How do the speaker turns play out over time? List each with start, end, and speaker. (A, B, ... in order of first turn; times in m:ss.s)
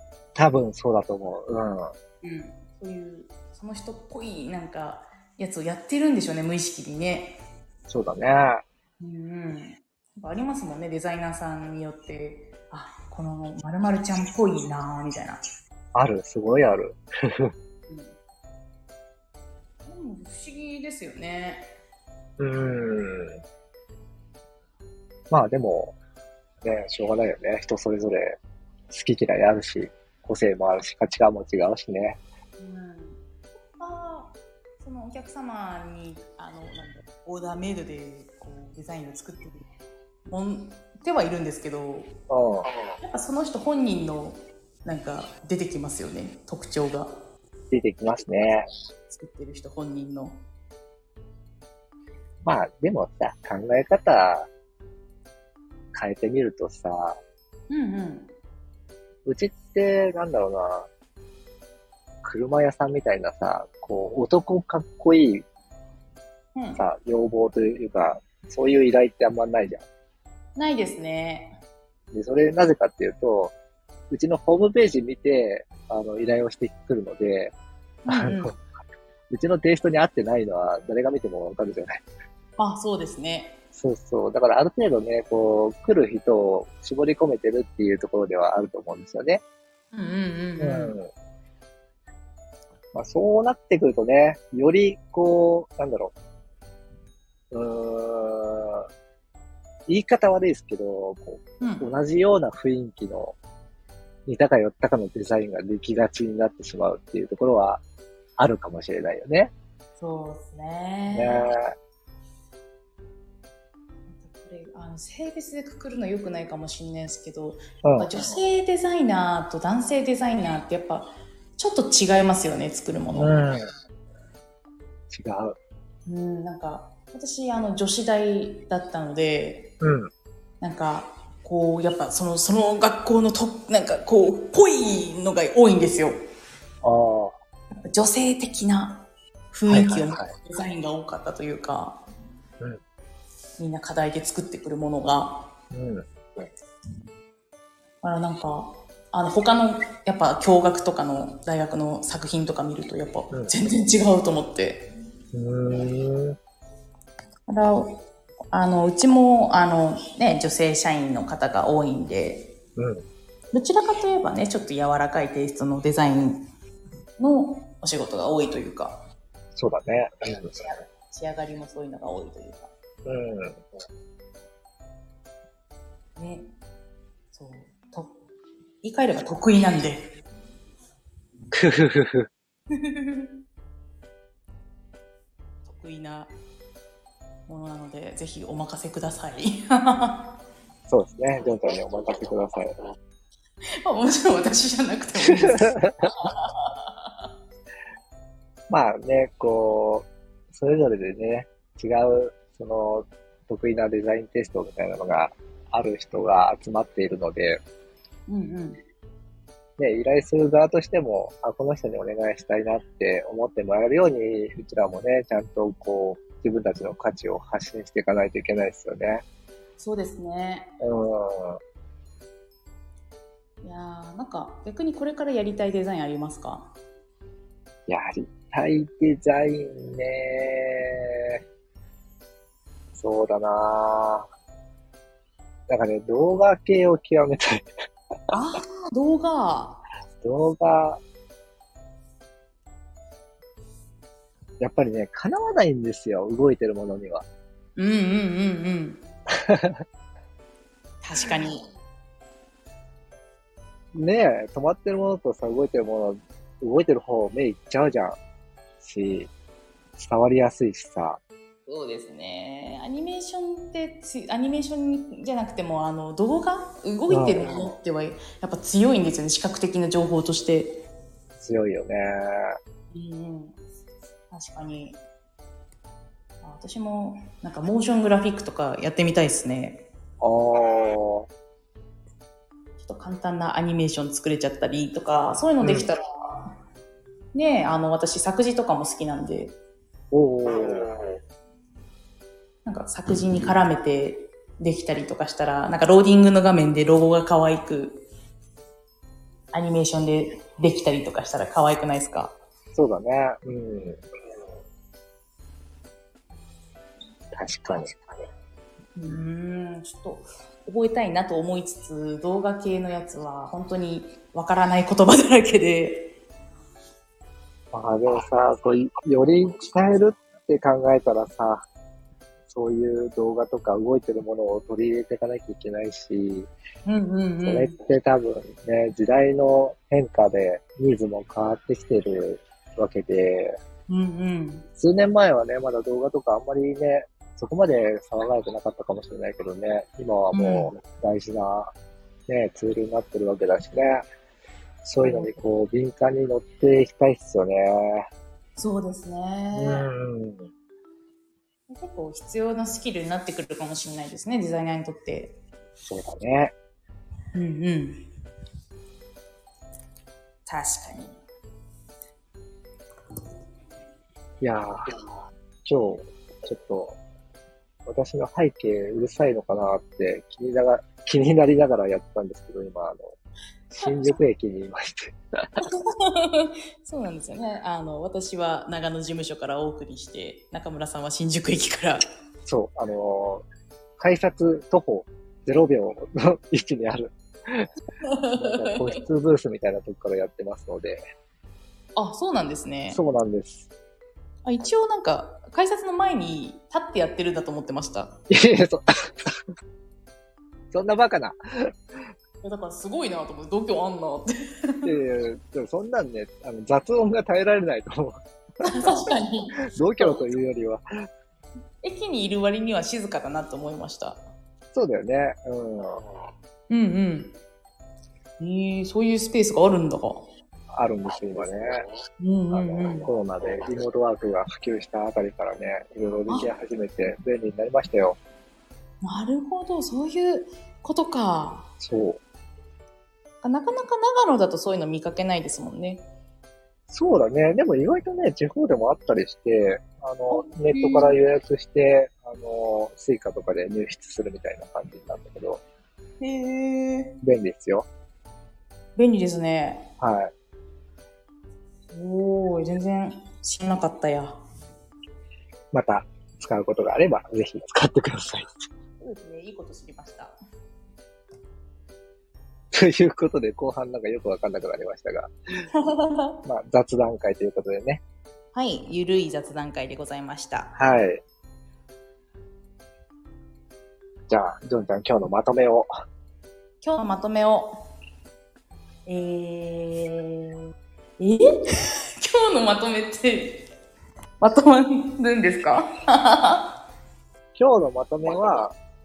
0:00.3-0:01.9 A
0:02.2-0:07.4 B
0:07.9-0:08.6 A
0:09.0-0:15.4 B
0:15.9-0:17.5 A
0:17.9-0:18.2 B
0:19.8-0:21.7 B
0:22.4-0:23.4 A
0:25.3-0:26.0 A
0:26.6-0:28.4 A
0:28.9-0:32.2 A
0:32.6-0:39.6 B
0:40.2-0:42.1 B
0:42.3-0:42.7 A
0:43.0-0:47.1 B
0:47.7-0:48.7 A
0:49.1-0:50.4 B
0:52.4-0:54.5 A
0:55.9-0:57.2 A
0:57.7-0:58.3 B
0:59.2-1:00.9 A
1:02.2-1:05.4 A
1:06.5-1:06.8 B
1:06.8-1:09.8 A
1:10.6-1:11.5 B
1:12.1-1:13.5 A
1:14.1-1:17.5 A
1:18.0-1:18.5 B
1:18.1-1:18.5 A
1:19.3-1:22.0 A
1:22.6-1:23.6 B
1:23.7-1:29.4 A
1:29.9-1:31.0 B
1:30.6-1:31.1 A
1:32.9-1:36.1 A
1:37.5-1:38.9 A
1:39.9-1:43.4 A
1:41.6-1:41.9 B
1:44.3-1:47.8 A
1:48.4-1:49.5 A
1:50.0-1:51.5 B
1:51.1-1:51.7 A
1:54.1-2:03.4 B
1:57.8-1:58.1 A
2:03.1-2:03.6 A
2:05.1-2:05.6 A
2:06.0-2:09.7 B
2:09.8-2:10.1 A
2:10.6-2:16.1 B
2:16.8-2:17.3 A
2:17.9-2:22.0 B
2:19.7-2:20.3 A
2:23.6-2:25.5 B
2:25.7-2:26.0 A
2:28.0-2:34.9 B
2:35.3-2:36.4 A
2:37.5-2:38.0 B
2:38.5-2:42.5 B
2:42.8-2:43.0 A
2:43.5-2:46.5 B
2:47.2-2:49.0 B
2:49.6-2:50.6 A
2:50.5-2:52.7 B
2:53.0-2:53.6 A
2:56.2-2:56.5 B
2:57.3-2:58.2 B
2:58.8-3:00.1 B
3:01.5-3:02.3 A
3:02.7-3:03.3 B
3:05.6-3:06.3 B
3:07.5-3:10.3 B
3:10.9-3:12.7 A
3:13.8-3:17.3 B
3:15.3-3:15.9 A
3:18.7-3:27.6 A
3:28.3-3:28.8 B
3:29.8-3:39.2 A
3:39.8-3:40.7 B
3:40.8-3:41.6 A
3:43.6-3:46.7 B
3:47.9-3:51.4 A
3:52.9-3:54.3 A
3:55.7-3:57.7 A
3:58.3-3:59.8 B
4:00.2-4:01.0 A
4:04.6-4:07.2 A
4:07.8-4:09.0 B
4:09.3-4:09.8 A
4:11.0-4:11.6 B
4:13.9-4:18.2 A
4:18.8-4:19.3 A
4:20.0-4:21.2 A
4:21.7-4:30.8 B
4:27.1-4:27.7 A
4:31.4-4:32.6 A
4:32.9-4:33.6 B
4:34.3-4:35.0 B
4:36.4-4:39.8 B
4:40.2-4:41.3 A
4:42.8-4:46.5 B
4:45.6-4:45.9 A
4:47.3-4:49.6 B
4:50.1-4:51.0 A
4:52.6-4:58.0 B
4:59.5-5:02.4 B
5:02.7-5:04.0 A
5:07.3-5:08.0 A
5:09.0-5:16.2 B
5:17.7-5:21.6 A
5:22.5-5:26.5 A
5:26.8-5:27.8 B
5:27.4-5:33.6 A
5:33.9-5:34.7 B
5:34.8-5:41.7 A
5:40.3-5:40.7 B
5:42.3-5:44.0 A
5:44.8-5:48.1 A
5:45.0-5:45.4 B
5:48.6-5:49.9 B
5:49.6-5:50.5 A
5:51.7-5:55.4 B
5:55.8-5:56.5 A
5:57.3-5:58.0 B
6:00.5-6:01.2 B
6:04.4-6:04.7 A
6:05.6-6:07.0 A
6:07.8-6:13.1 A
6:13.7-6:14.2 B
6:13.7-6:15.2 A
6:15.6-6:22.0 B
6:22.4-6:23.4 A
6:24.0-6:27.7 A
6:28.0-6:28.8 B
6:28.4-6:31.0 A
6:32.0-6:33.0 B
6:32.9-6:33.7 A
6:34.4-6:38.2 B
6:38.3-6:39.4 A
6:40.7-6:41.4 A
6:42.4-6:44.9 B
6:44.8-6:48.2 A
6:48.6-6:50.3 B
6:48.7-6:49.0 A
6:49.7-6:50.8 A
6:51.8-6:54.2 B
6:54.7-6:56.0 A
6:56.7-6:57.3 B
6:58.4-7:00.2 B
7:00.7-7:01.8 A
7:02.2-7:03.1 B
7:02.5-7:08.2 A
7:09.0-7:11.7 B
7:11.8-7:12.2 A
7:13.4-7:16.0 B
7:16.9-7:25.6 A
7:20.3-7:21.2 B
7:26.2-7:27.2 B
7:27.2-7:27.9 A
7:29.0-7:29.9 B
7:30.0-7:30.3 A
7:31.9-7:34.4 B
7:35.7-7:38.5 A
7:39.0-7:40.3 B
7:42.7-7:45.3 A
7:45.8-7:46.3 B
7:46.4-7:48.0 A
7:48.5-7:50.7 B
7:50.8-7:51.2 A
7:54.3-7:55.9 A
7:56.8-7:57.7 B
7:59.0-8:01.5 B
8:02.2-8:03.6 B
8:04.4-8:06.7 B
8:07.6-8:08.8 A